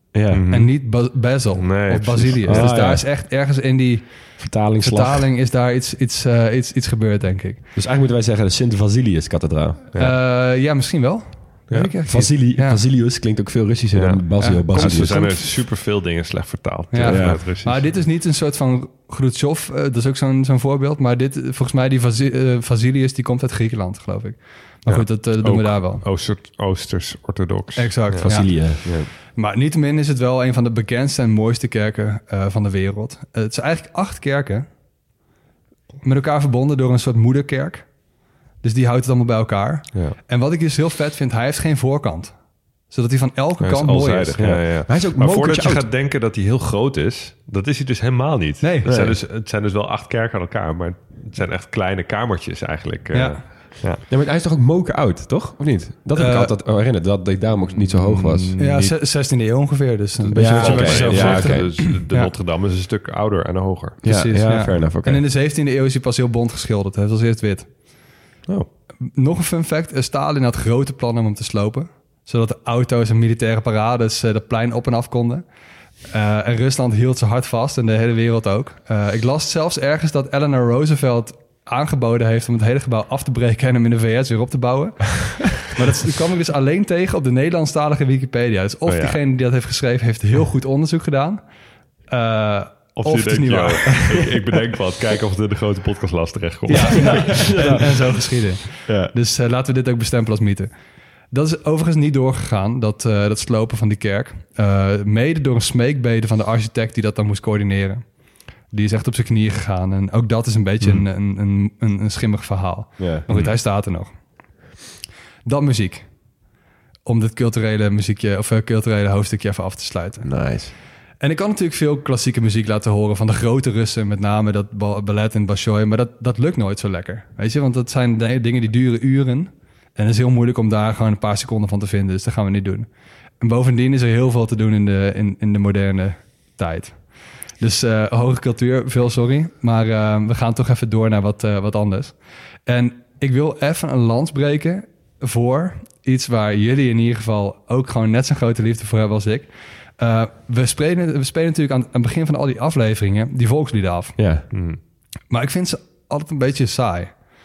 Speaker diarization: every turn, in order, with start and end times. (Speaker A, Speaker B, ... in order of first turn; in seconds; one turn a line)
Speaker A: 0.1-0.4
Speaker B: 0.3-0.7
Speaker C: 0.5-7.6
Speaker B: 1.6-2.7
Speaker A: 2.5-3.0
Speaker A: 4.4-5.3
Speaker A: 7.8-9.8
Speaker C: 9.9-12.8
Speaker A: 12.0-15.4
Speaker B: 13.9-17.8
Speaker C: 14.4-15.2
Speaker C: 16.9-26.0
Speaker A: 17.0-17.4
Speaker B: 24.9-28.3
Speaker C: 27.8-34.7
Speaker A: 28.2-29.1
Speaker C: 36.0-37.9
Speaker C: 38.6-42.4
Speaker C: 42.9-44.4
Speaker B: 43.6-54.0
Speaker A: 44.4-45.9
Speaker C: 48.6-48.9
Speaker A: 48.8-49.2
Speaker C: 53.1-53.4
Speaker A: 54.1-58.6
Speaker C: 56.1-56.5
Speaker B: 57.7-58.9
Speaker C: 58.6-62.3
Speaker B: 60.2-64.0
Speaker A: 60.3-61.8
Speaker A: 64.0-65.2
Speaker C: 64.0-67.7
Speaker C: 69.0-75.4
Speaker C: 76.0-91.4
Speaker B: 88.9-89.2
Speaker C: 92.1-94.2
Speaker B: 93.0-97.7
Speaker C: 96.7-100.7
Speaker A: 96.8-98.1
Speaker C: 101.3-108.0
Speaker C: 108.7-114.1
Speaker A: 113.0-113.2
Speaker B: 113.3-113.5
Speaker C: 115.4-116.0
Speaker C: 117.0-120.3
Speaker A: 120.2-120.7
Speaker C: 121.2-132.9
Speaker C: 133.4-137.1
Speaker C: 137.6-154.2
Speaker A: 154.2-154.5
Speaker B: 154.5-154.8
Speaker C: 155.3-157.1